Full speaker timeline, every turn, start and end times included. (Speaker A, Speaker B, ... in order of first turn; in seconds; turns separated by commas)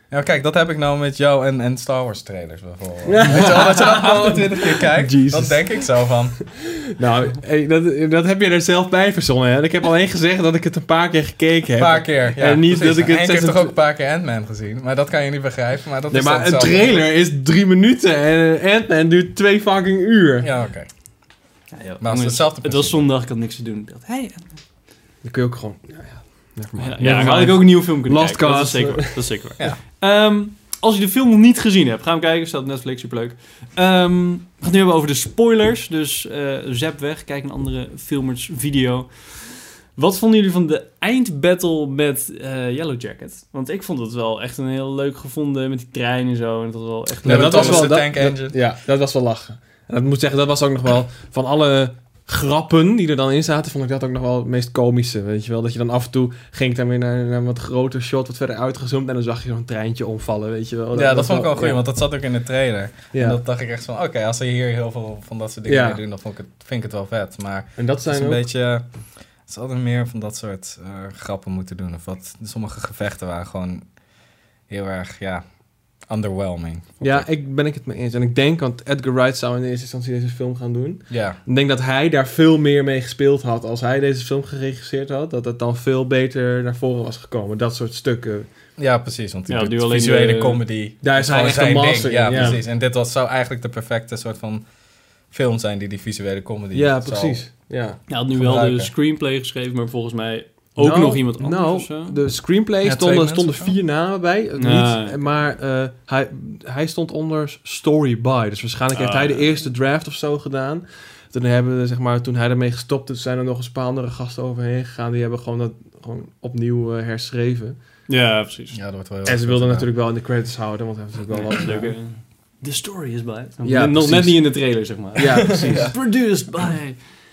Speaker A: 0.1-6.4, Speaker B: 3.0-13.7, Speaker A: 11.8-17.0, Speaker B: 16.1-20.5, Speaker A: 20.4-20.9, Speaker C: 21.7-24.6, Speaker A: 22.0-23.0, Speaker B: 25.2-29.3, Speaker C: 26.8-47.9, Speaker A: 47.2-48.6, Speaker B: 47.2-61.8, Speaker A: 60.9-73.9, Speaker B: 63.1-63.4, Speaker B: 65.7-66.0, Speaker B: 67.8-68.4, Speaker A: 74.7-75.4, Speaker A: 76.0-77.3, Speaker B: 77.0-88.5, Speaker A: 81.1-81.4, Speaker A: 88.8-94.6, Speaker C: 89.5-90.6, Speaker B: 91.0-92.6, Speaker C: 92.3-92.6, Speaker A: 95.3-97.4, Speaker B: 96.7-98.0, Speaker C: 98.1-102.2, Speaker A: 98.3-98.9, Speaker B: 100.8-117.8, Speaker A: 102.8-103.8, Speaker C: 104.6-105.2, Speaker C: 108.9-109.4, Speaker C: 118.1-118.8, Speaker A: 118.7-119.9, Speaker B: 119.2-122.0, Speaker C: 121.3-127.1, Speaker B: 123.6-125.9, Speaker A: 125.6-126.0